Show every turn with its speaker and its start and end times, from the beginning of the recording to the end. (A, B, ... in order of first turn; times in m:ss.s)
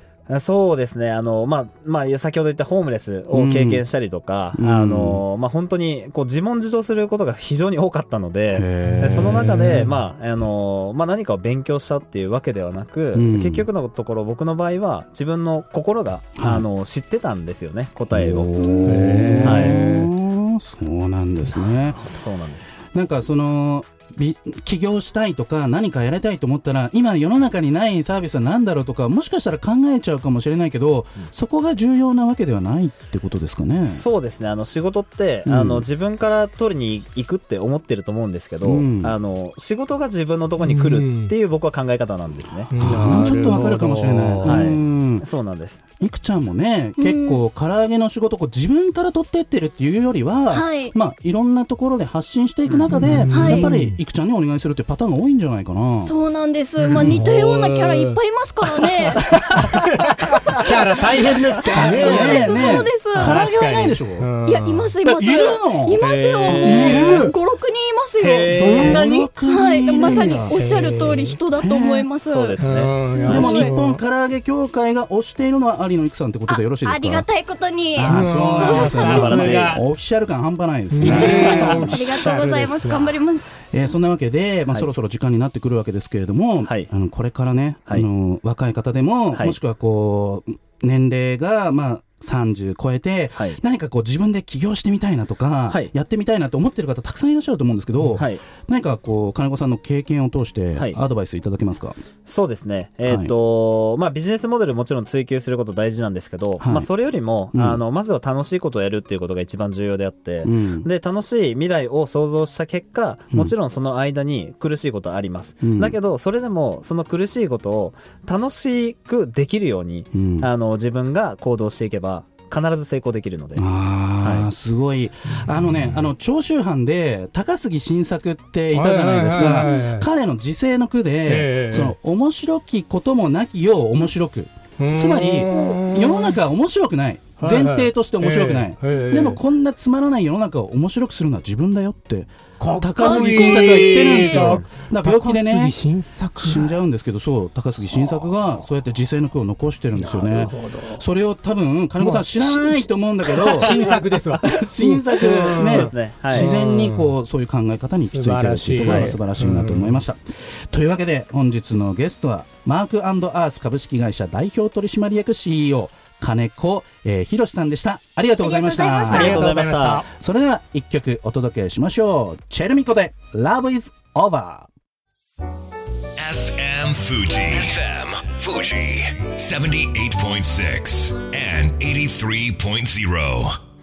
0:00.3-0:19.8 A
0:03.3-0:03.8 B
0:04.5-0:05.2 B
0:08.5-0:09.9 B
0:09.0-0:09.9 C
0:13.1-0:13.7 B
0:16.4-0:16.6 B
0:18.1-0:22.0 B
0:18.6-0:18.9 D
0:18.8-0:20.1 C
0:21.5-0:22.7 A
0:22.9-0:34.0 B
0:33.8-0:43.3 A
0:35.4-0:35.8 B
0:38.6-0:39.2 B
0:40.6-0:41.3 C
0:42.7-0:44.6 C
0:42.8-0:45.2 B
0:44.4-0:45.8 A
0:46.0-0:56.1 B
0:47.0-0:47.4 D
0:50.5-0:50.9 D
0:52.7-0:54.0 C
0:53.3-0:53.7 D
0:56.0-0:59.2 D
0:56.8-0:58.2 C
0:57.0-0:57.3 B
0:58.7-1:05.4 C
0:59.2-0:59.8 B
1:01.6-1:04.3 B
1:01.7-1:03.4 D
1:04.4-1:08.7 D
1:05.0-1:07.3 B
1:06.0-1:07.3 C
1:08.2-1:09.0 A
1:08.5-1:09.3 C
1:08.5-1:10.6 B
1:09.5-1:13.8 D
1:09.9-1:11.4 C
1:11.6-1:12.1 B
1:12.3-1:13.5 A
1:12.6-1:14.0 C
1:13.2-1:17.3 B
1:16.5-1:19.5 D
1:18.0-1:22.0 B
1:18.0-1:19.8 C
1:19.0-1:19.8 A
1:20.9-1:23.1 C
1:21.0-1:23.4 D
1:23.7-1:42.0 B
1:26.6-1:26.9 A
1:38.1-1:38.4 A
1:42.2-2:03.6 A
1:43.0-1:43.3 B
1:46.6-1:46.9 B
1:47.5-1:47.8 B
1:50.4-1:50.9 B
1:55.6-1:56.0 B
2:00.1-2:00.5 B
2:03.6-2:25.8 B
2:04.2-2:04.5 A
2:05.4-2:05.9 C
2:08.7-2:10.1 C
2:11.3-2:11.9 C
2:14.8-2:16.2 C
2:17.4-2:19.4 C
2:22.6-2:26.8 C
2:23.2-2:24.4 D
2:26.4-2:33.8 B
2:30.0-2:31.0 C
2:32.0-2:37.1 C
2:34.4-2:49.5 B
2:35.4-2:36.5 A
2:38.1-2:40.0 C
2:38.8-2:39.1 A
2:48.4-2:49.4 D
2:49.1-2:50.0 A
2:49.1-2:50.0 C
2:50.1-2:54.7 B
2:56.2-3:03.6 E